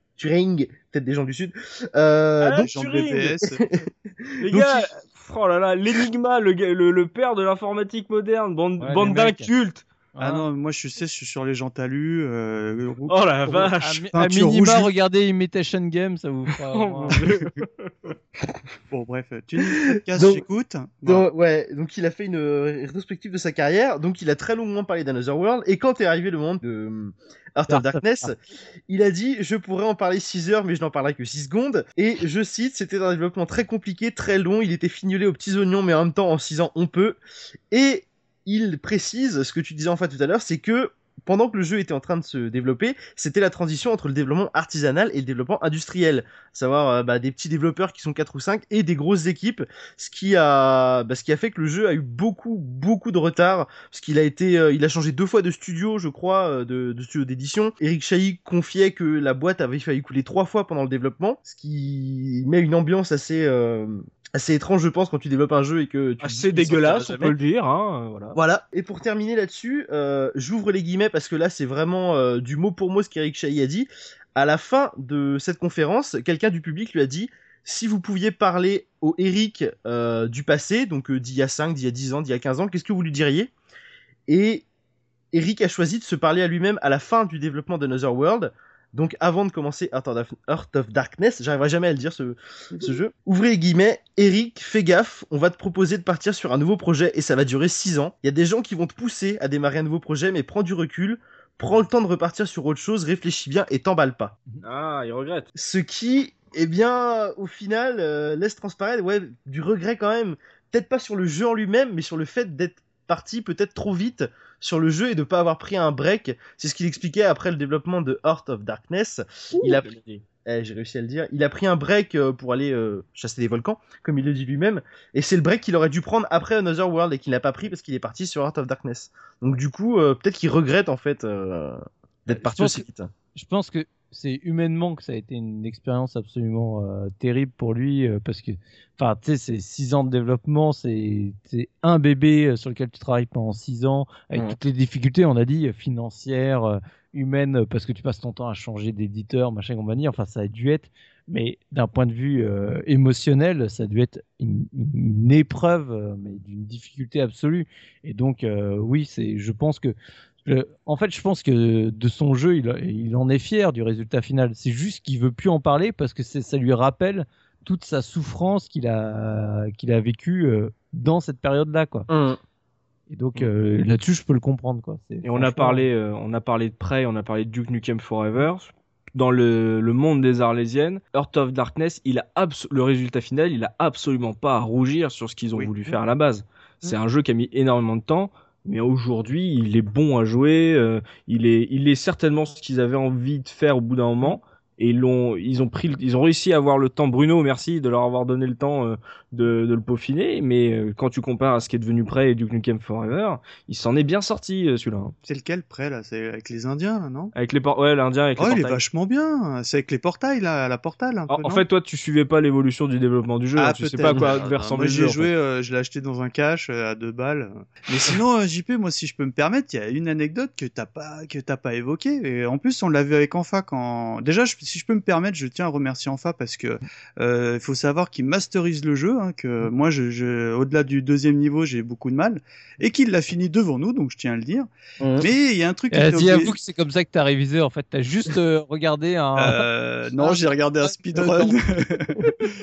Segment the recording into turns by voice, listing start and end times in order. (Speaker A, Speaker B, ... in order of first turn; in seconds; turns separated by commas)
Speaker A: 0.1-2.7, Speaker B: 2.4-3.3, Speaker C: 2.6-3.6, Speaker A: 3.4-4.7, Speaker B: 4.4-9.8, Speaker D: 8.8-9.5, Speaker D: 10.1-10.4, Speaker C: 10.2-14.9, Speaker B: 13.1-14.1, Speaker D: 13.7-17.2, Speaker B: 16.7-17.9, Speaker C: 18.9-21.2, Speaker A: 19.7-20.4, Speaker A: 21.0-28.3, Speaker C: 27.7-28.0, Speaker A: 28.9-37.2, Speaker A: 37.7-67.3, Speaker B: 66.2-68.4, Speaker C: 66.6-67.3, Speaker A: 68.3-83.5, Speaker A: 84.3-84.7, Speaker A: 85.3-104.4, Speaker B: 104.6-105.5, Speaker A: 105.5-119.9, Speaker B: 119.6-120.2, Speaker A: 120.4-133.1, Speaker D: 132.3-172.1, Speaker A: 172.1-172.4, Speaker D: 173.1-175.9, Speaker B: 175.2-205.1, Speaker C: 185.6-185.9, Speaker C: 205.2-207.3, Speaker B: 207.3-208.8, Speaker C: 208.4-211.6, Speaker B: 211.3-215.3, Speaker C: 213.6-236.5, Speaker A: 235.0-235.3, Speaker D: 235.9-239.6, Speaker C: 239.3-242.2, Speaker D: 240.2-241.5